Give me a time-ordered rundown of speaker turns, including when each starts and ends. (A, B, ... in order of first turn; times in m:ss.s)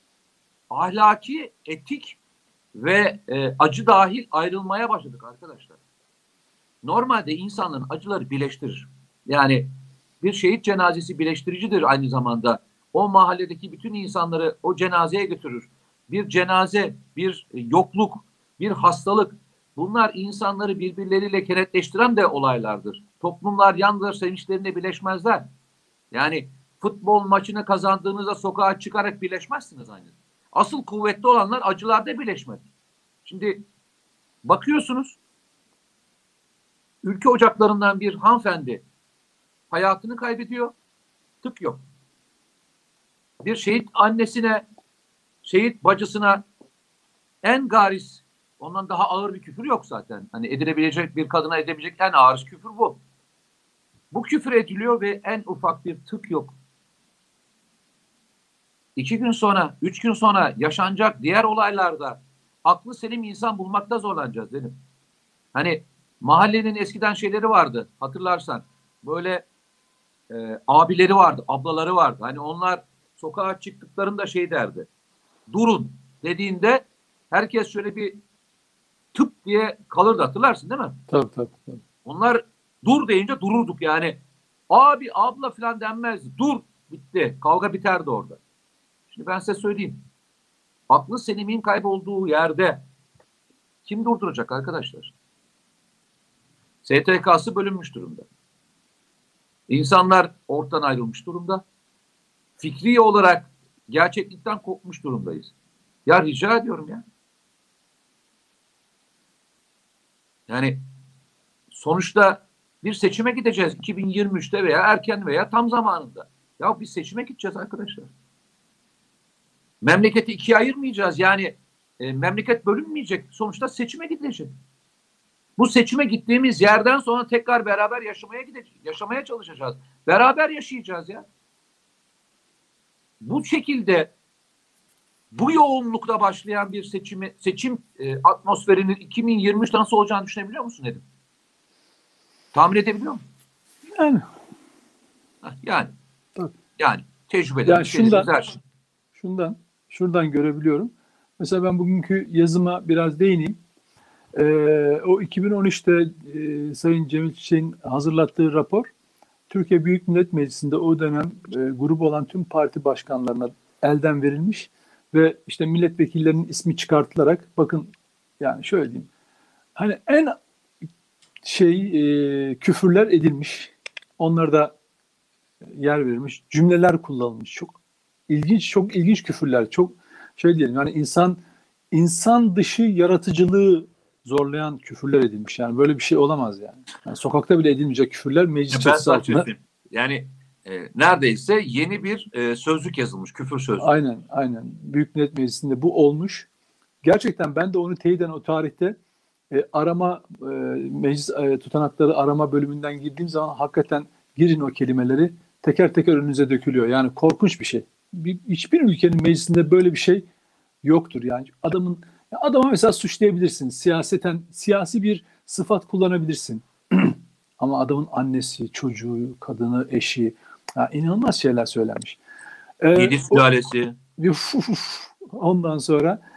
0:00.7-0:02.2 A
0:02.8-0:05.8 A
0:06.8-0:25.5 A
0:26.1-0:32.6 A
0:33.2-0:33.6 A
0:34.4-0:35.2 A
0:37.0-0:38.8 A
0:39.7-0:40.7 A
0:41.4-0:41.8 A
0:43.4-0:44.7 A
0:45.4-0:46.4 A
0:47.4-0:53.0 A
0:54.1-0:56.5 A
0:59.0-1:04.8 A
1:05.5-1:09.5 A
1:10.3-1:14.9 A
1:15.5-1:18.2 A
1:19.1-1:21.0 A
1:21.1-1:21.8 B
1:22.0-1:28.4 A
1:29.1-1:30.0 A
1:30.9-1:32.8 A
1:33.9-1:35.1 A
1:36.8-1:38.3 A
1:39.7-1:41.6 A
1:42.6-1:45.5 A
1:46.1-1:47.0 A
1:50.5-1:50.8 A
1:51.7-1:58.1 A
1:59.8-2:04.6 A
2:05.6-2:11.2 A
2:13.2-2:14.1 A
2:15.3-2:21.0 A
2:22.5-2:23.2 A
2:24.0-2:24.2 B
2:25.4-2:25.9 A
2:26.8-2:28.6 A
2:27.7-2:28.3 B
2:29.2-2:33.6 B
2:34.4-2:38.9 B
2:39.5-2:49.1 B
2:49.8-2:50.4 B
2:51.4-2:54.8 B
2:55.7-2:57.8 B
2:58.3-3:01.4 B
3:01.9-3:09.5 B
3:08.7-3:13.9 A
3:13.8-3:16.5 B
3:17.0-3:19.0 B
3:19.5-3:30.2 B
3:30.8-3:42.2 B
3:42.8-3:43.4 B
3:43.0-3:44.0 A
3:44.2-3:46.2 B